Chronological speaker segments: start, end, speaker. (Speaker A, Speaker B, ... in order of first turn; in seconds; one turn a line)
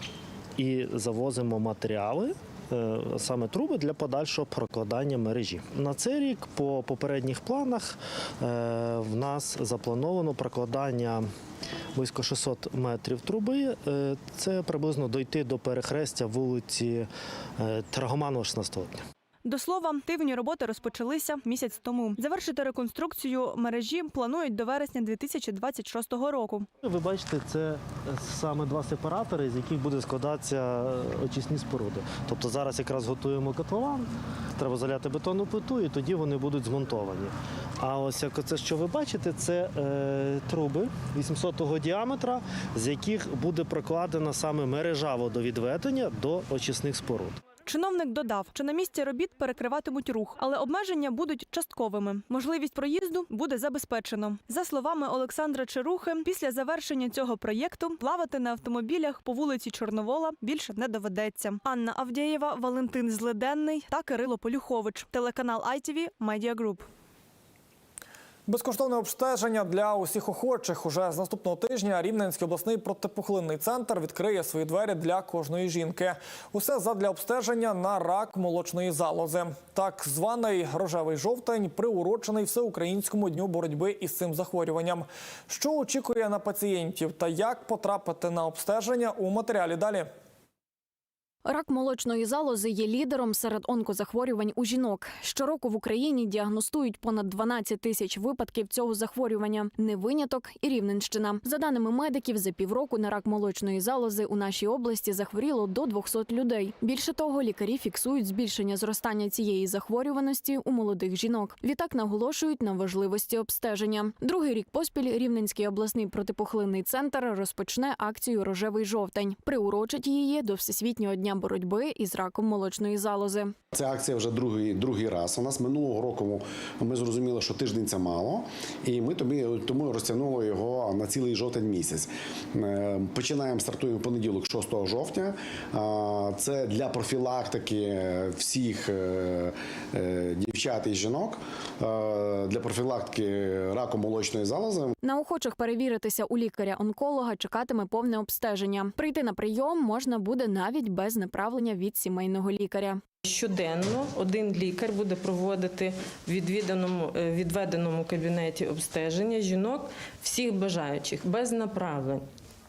Speaker A: 0.6-11.3
Speaker A: 11.9-19.0
Speaker B: 19.4-26.7
Speaker A: 26.8-47.4
Speaker B: 47.6-66.9
Speaker C: 68.5-90.1
Speaker D: 91.5-123.5
Speaker E: 123.7-144.9
Speaker D: 145.0-153.0
Speaker F: 153.2-162.2